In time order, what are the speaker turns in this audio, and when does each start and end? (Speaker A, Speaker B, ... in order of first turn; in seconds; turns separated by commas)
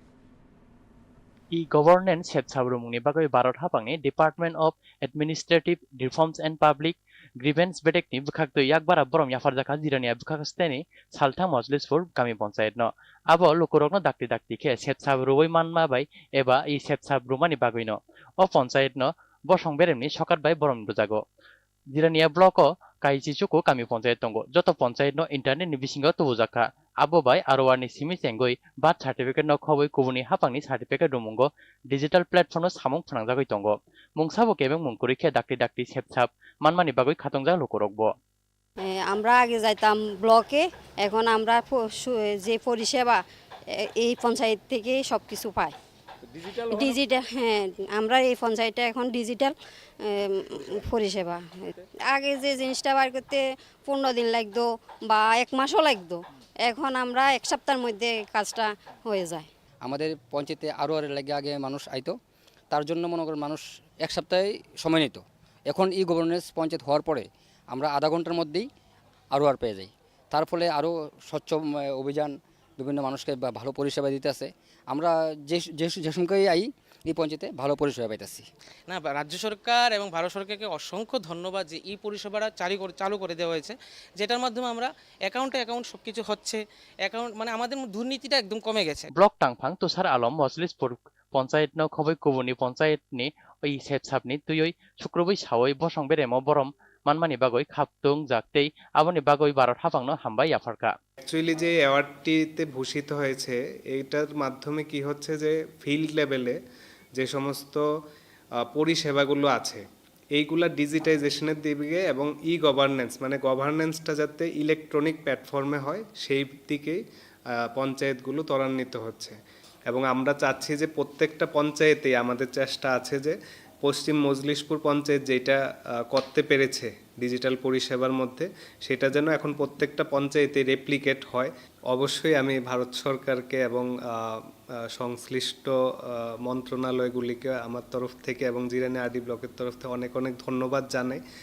Speaker A: 1.5-21.2, Speaker A: 21.9-38.1, Speaker B: 38.8-45.8, Speaker B: 46.6-59.5, Speaker C: 59.8-62.1, Speaker C: 62.7-68.7, Speaker C: 69.3-78.5, Speaker D: 78.9-89.1, Speaker A: 89.2-100.9, Speaker E: 101.2-106.6, Speaker E: 107.2-107.8, Speaker E: 108.7-117.0, Speaker E: 117.7-119.4, Speaker E: 119.9-125.6, Speaker E: 126.1-134.4, Speaker E: 135.0-141.2